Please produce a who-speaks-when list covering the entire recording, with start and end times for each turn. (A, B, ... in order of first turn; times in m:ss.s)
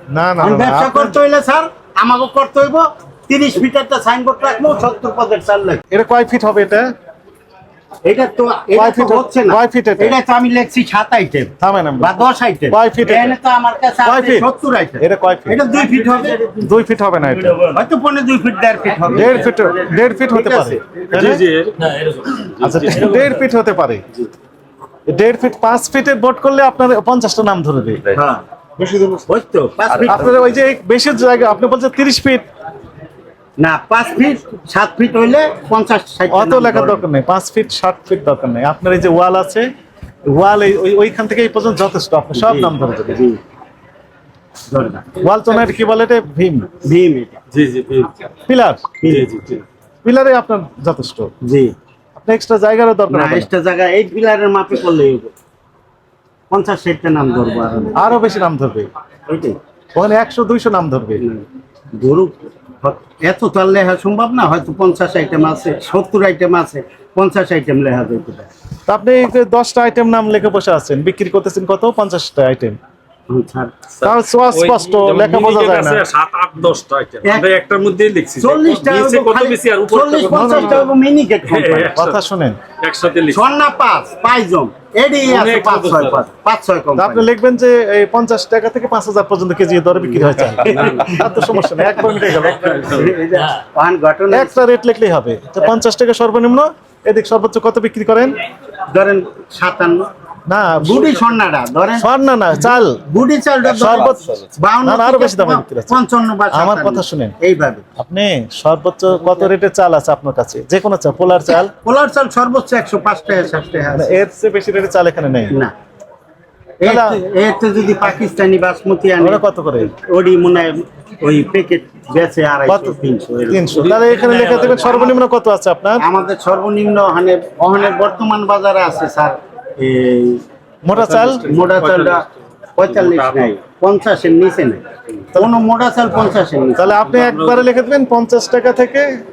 0:00.1-0:01.2 A
0:00.4-0:05.8 B
0:05.9-0:06.9 A
0:08.0-0:16.4 B
0:08.7-0:10.2 A
0:11.6-0:13.4 A
0:14.0-0:14.5 A
0:15.0-0:15.6 A
0:16.6-0:17.6 A
0:17.3-0:17.8 C
0:17.7-0:19.6 B
0:19.1-0:21.4 A
0:20.1-0:20.8 B
0:21.1-0:21.7 D
0:21.8-0:23.4 C
0:22.6-0:22.9 D
0:22.6-0:24.0 A
0:25.1-0:28.1 A
0:28.1-0:28.4 B
0:28.8-0:29.2 D
0:29.3-0:30.5 B
0:30.0-0:32.5 A
0:33.6-0:37.0 B
0:36.3-0:39.7 A
0:40.3-0:43.2 A
0:42.4-0:43.4 B
0:44.7-0:45.1 B
0:45.2-0:46.8 A
0:46.8-0:47.4 B
0:47.5-0:48.1 D
0:48.5-0:49.0 A
0:49.0-0:49.3 B
0:49.0-0:49.6 D
0:50.0-0:51.3 A
0:51.4-0:51.7 B
0:52.2-0:53.5 A
0:53.1-0:55.3 B
0:56.5-0:58.0 B
0:58.0-0:58.9 A
0:59.3-0:59.6 B
1:00.0-1:01.2 A
1:01.2-1:08.5 B
1:08.9-1:12.8 A
1:13.3-1:13.7 B
1:14.0-1:20.9 D
1:14.0-1:16.0 A
1:18.4-1:22.0 B
1:20.3-1:20.8 A
1:21.4-1:22.2 D
1:21.9-1:22.6 A
1:22.8-1:23.4 D
1:23.3-1:27.3 B
1:25.2-1:26.2 D
1:27.0-1:32.6 A
1:30.0-1:31.7 B
1:30.5-1:31.6 D
1:32.0-1:32.7 C
1:32.5-1:33.1 D
1:32.7-1:34.6 B
1:33.3-1:33.6 C
1:34.3-1:38.4 A
1:38.9-1:40.1 B
1:40.5-1:41.2 A
1:40.8-1:42.1 B
1:42.0-1:43.0 A
1:43.0-1:47.8 B
1:43.6-1:46.0 A
1:46.5-1:47.3 A
1:48.0-1:51.7 A
1:51.8-1:54.2 B
1:54.0-1:55.5 A
1:56.8-2:03.8 B
1:56.8-1:57.2 A
1:59.2-1:59.9 A
2:02.7-2:03.0 A
2:03.5-2:06.0 A
2:03.7-2:05.2 C
2:06.0-2:10.4 B
2:10.8-2:11.5 A
2:11.0-2:12.4 D
2:11.5-2:12.2 B
2:12.8-2:14.8 B
2:12.9-2:13.5 D
2:15.3-2:15.6 A
2:15.4-2:17.4 B
2:16.8-2:19.1 A
2:17.2-2:17.6 D